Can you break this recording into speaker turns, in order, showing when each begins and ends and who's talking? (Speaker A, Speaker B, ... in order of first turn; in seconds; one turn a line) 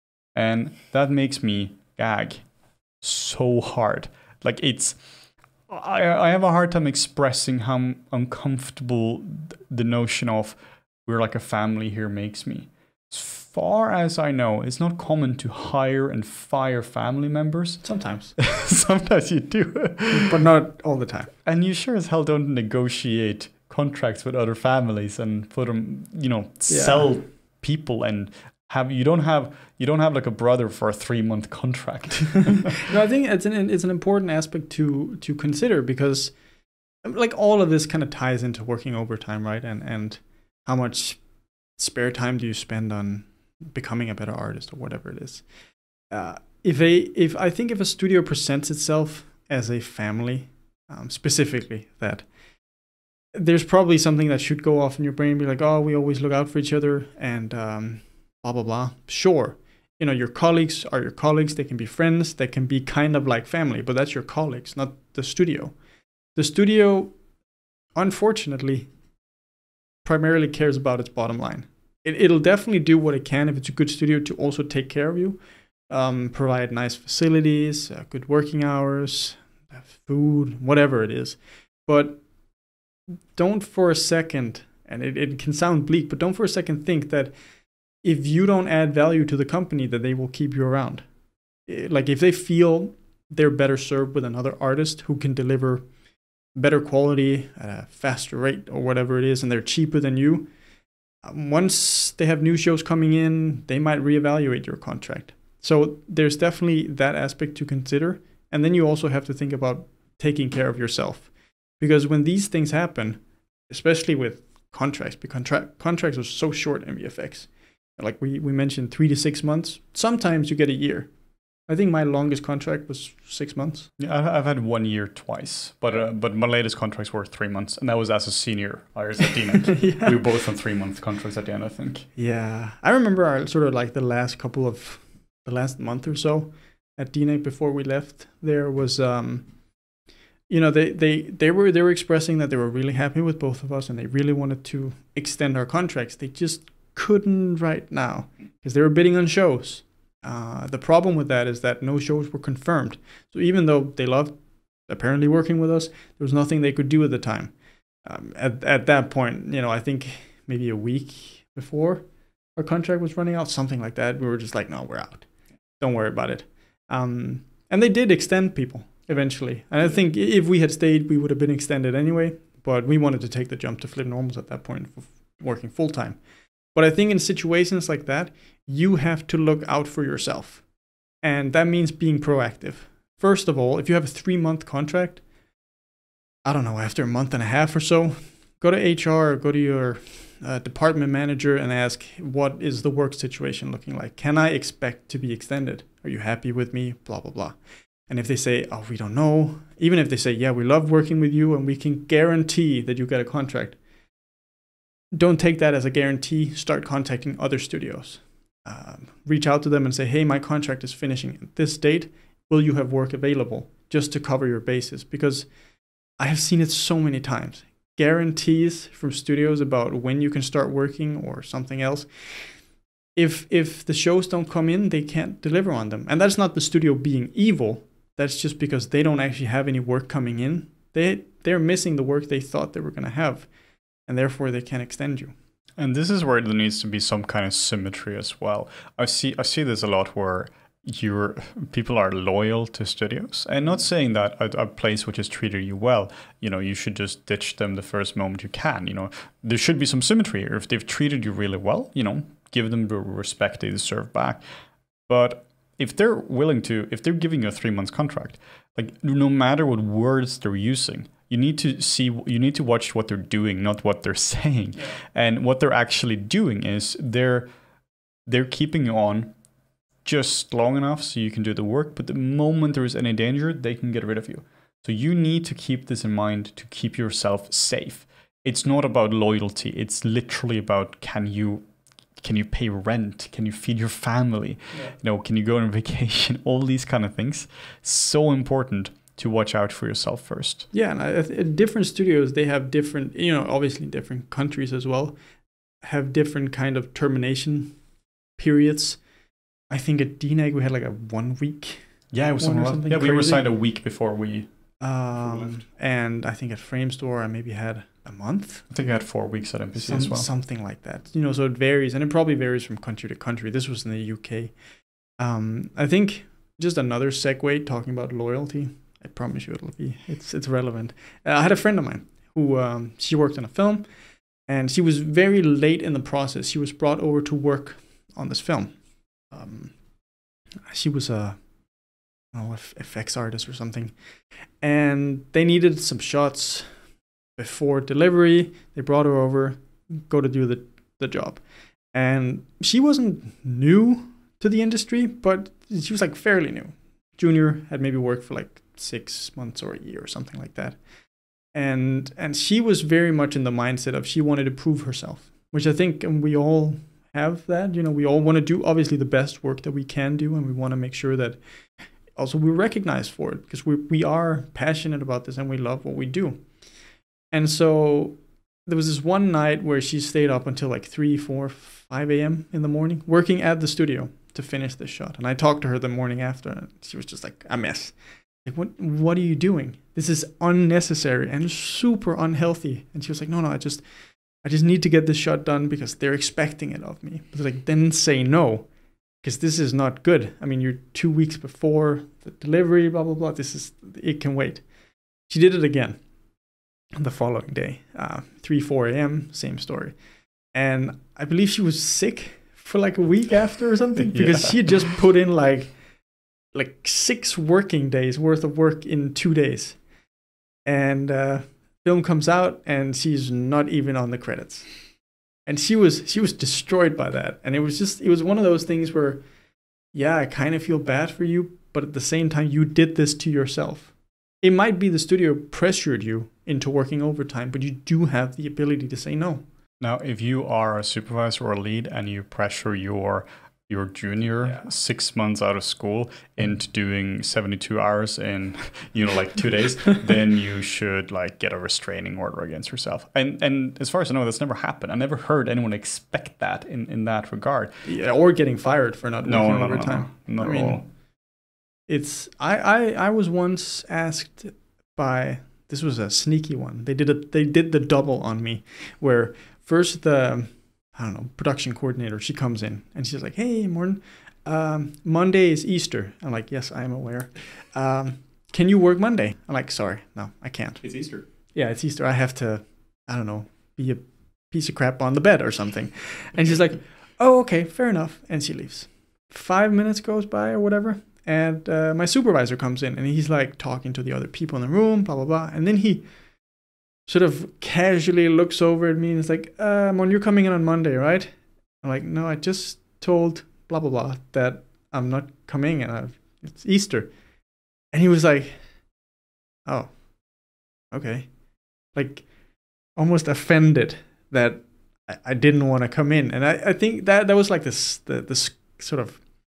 Speaker A: 0.3-2.4
Speaker A: 3.0-5.0
Speaker A: 5.7-20.3
Speaker B: 17.8-18.4
Speaker B: 20.2-21.3
Speaker A: 21.4-32.8
Speaker B: 26.7-27.1
Speaker B: 32.8-36.3
Speaker B: 37.0-41.2
Speaker B: 41.8-45.5
Speaker B: 46.1-52.3
Speaker B: 53.3-65.8
Speaker B: 66.3-67.1
Speaker B: 67.9-68.9
Speaker B: 70.0-82.2
Speaker B: 83.3-87.3
Speaker B: 88.0-91.0
Speaker B: 91.7-95.8
Speaker B: 96.5-100.5
Speaker B: 101.2-121.1
Speaker B: 121.7-123.9
Speaker A: 124.0-132.1
Speaker B: 129.7-130.2
Speaker B: 132.2-139.5
Speaker B: 140.5-154.3
Speaker B: 154.9-157.5
Speaker B: 158.0-162.0
Speaker B: 162.6-165.3
Speaker B: 165.8-176.2
Speaker B: 176.7-180.6
Speaker B: 181.2-185.2
Speaker B: 186.4-197.6
Speaker B: 198.1-203.8
Speaker B: 205.1-215.5
Speaker B: 216.2-222.5
Speaker B: 223.2-233.5
Speaker B: 234.1-235.3
Speaker A: 235.8-254.4
Speaker A: 255.1-267.5
Speaker A: 268.3-269.3
Speaker A: 270.0-281.6
Speaker A: 282.2-290.7
Speaker B: 290.7-295.1
Speaker B: 295.8-297.8
Speaker B: 298.4-299.0
Speaker B: 299.7-301.8
Speaker A: 302.1-304.5
Speaker B: 302.4-303.4
Speaker B: 304.8-308.6
Speaker A: 308.7-310.3
Speaker B: 309.8-314.5
Speaker B: 315.2-323.9
Speaker B: 324.5-328.8
Speaker B: 329.3-329.7
Speaker B: 330.7-331.4
Speaker B: 332.3-333.9
Speaker B: 334.6-336.7
Speaker B: 337.4-350.8
Speaker B: 351.5-361.4
Speaker B: 362.1-366.4
Speaker B: 367.3-383.9
Speaker B: 384.4-388.7
Speaker B: 389.2-394.6
Speaker B: 395.3-396.0
Speaker B: 396.9-399.9
Speaker B: 400.5-405.7
Speaker B: 406.5-409.8
Speaker B: 410.6-414.7
Speaker B: 415.4-419.2
Speaker B: 419.9-429.4
Speaker A: 429.8-447.8
Speaker B: 447.8-450.8
Speaker A: 449.2-450.8
Speaker B: 451.9-470.9
Speaker A: 470.8-471.2
Speaker B: 471.5-486.0
Speaker B: 487.1-497.1
Speaker B: 497.9-498.6
Speaker B: 499.6-499.9
Speaker B: 500.9-501.3
Speaker B: 501.9-502.2
Speaker B: 502.9-509.2